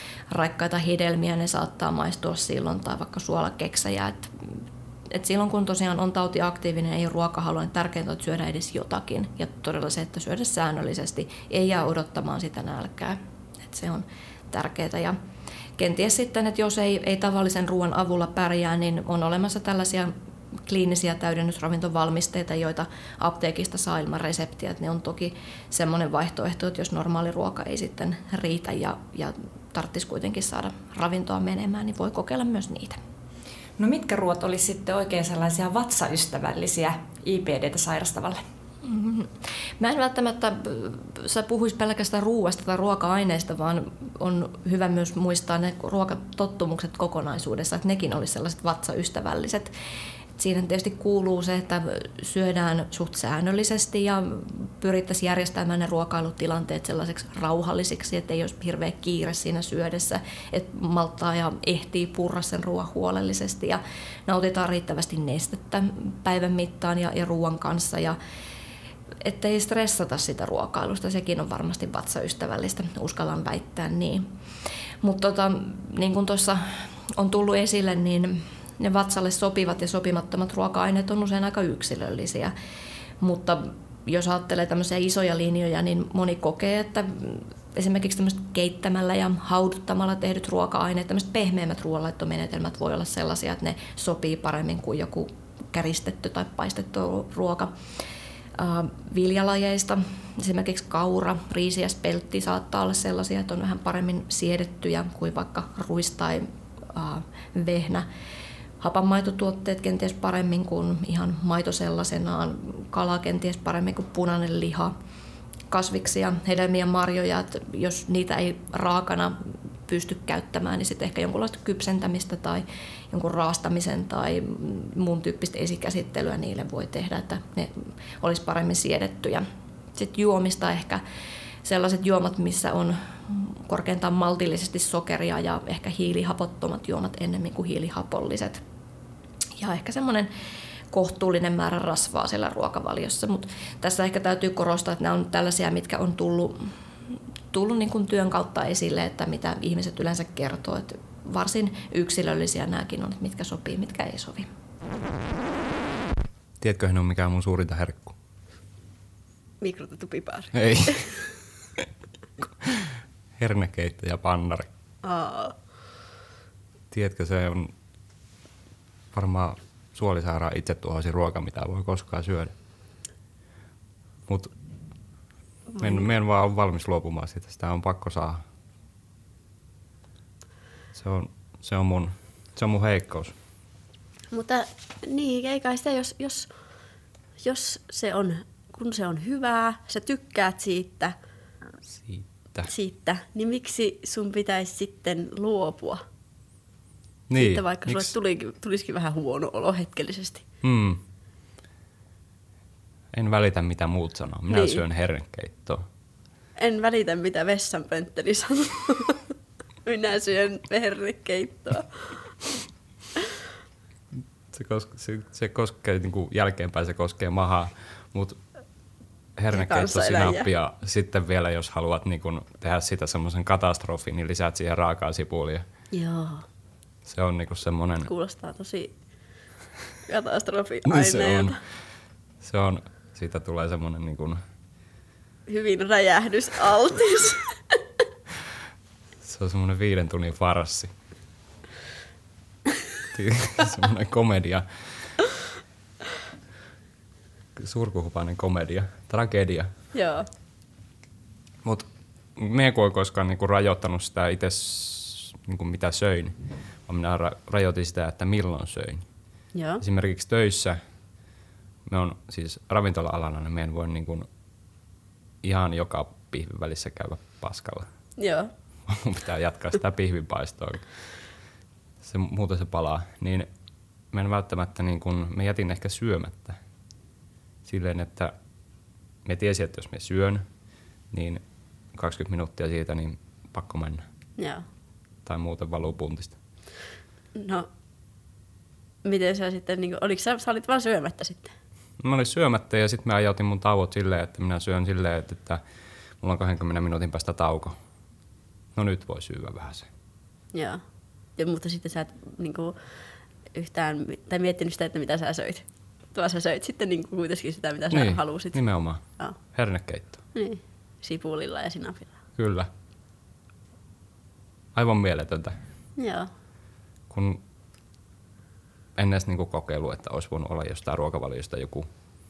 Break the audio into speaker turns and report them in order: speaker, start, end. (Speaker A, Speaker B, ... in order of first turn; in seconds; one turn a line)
Speaker A: 0.3-4.6
Speaker A: 5.1-15.2
Speaker A: 15.8-20.1
Speaker A: 20.7-33.0
Speaker B: 33.8-38.4
Speaker A: 38.8-49.7
Speaker A: 50.4-68.2
Speaker A: 69.2-74.3
Speaker A: 75.0-82.5
Speaker A: 83.2-97.7
Speaker A: 98.6-108.1
Speaker A: 108.8-114.9
Speaker A: 115.7-131.0
Speaker A: 131.6-138.6
Speaker A: 139.6-140.3
Speaker A: 140.9-146.7
Speaker A: 147.5-154.5
Speaker C: 156.6-158.1
Speaker D: 159.6-161.1
Speaker C: 160.5-161.1
Speaker C: 162.6-164.7
Speaker D: 165.0-165.6
Speaker C: 166.9-167.7
Speaker C: 169.1-172.5
Speaker C: 174.3-174.5
Speaker D: 175.8-176.1
Speaker C: 175.8-178.4
Speaker C: 180.9-183.3
Speaker D: 184.3-186.5
Speaker D: 187.4-191.2
Speaker C: 191.9-192.7
Speaker D: 192.7-196.0
Speaker C: 197.3-198.1
Speaker D: 197.3-200.4
Speaker C: 200.6-201.0
Speaker C: 203.1-205.8
Speaker D: 204.5-204.8
Speaker D: 206.6-209.3
Speaker D: 209.8-212.3
Speaker C: 214.5-218.4
Speaker C: 219.4-225.7
Speaker D: 219.5-220.5
Speaker D: 225.9-226.4
Speaker C: 227.1-228.1
Speaker D: 228.1-228.9
Speaker D: 230.1-231.6
Speaker C: 230.9-231.6
Speaker C: 232.4-234.4
Speaker D: 235.5-237.5
Speaker C: 239.2-240.9
Speaker C: 243.1-245.2
Speaker C: 247.6-249.7
Speaker D: 249.9-250.3
Speaker C: 251.6-256.3
Speaker C: 256.9-259.1
Speaker D: 259.5-259.8
Speaker C: 259.8-260.8
Speaker C: 261.9-264.3
Speaker C: 265.4-267.9
Speaker D: 268.2-268.5
Speaker C: 268.9-270.9
Speaker C: 272.0-273.5
Speaker C: 274.1-276.6
Speaker C: 277.6-278.3
Speaker C: 279.2-280.4
Speaker C: 281.1-281.4
Speaker C: 281.9-284.0
Speaker D: 284.4-284.6
Speaker C: 285.2-286.4
Speaker D: 287.4-287.7
Speaker D: 289.0-291.5
Speaker C: 292.0-295.6
Speaker C: 296.2-297.8
Speaker C: 298.8-299.9
Speaker D: 300.5-300.8
Speaker D: 301.4-302.8
Speaker D: 303.5-308.6
Speaker C: 307.9-310.2
Speaker D: 310.3-312.1
Speaker C: 312.4-312.7
Speaker C: 314.7-315.6
Speaker D: 316.0-316.3
Speaker C: 317.1-317.4
Speaker C: 319.0-321.9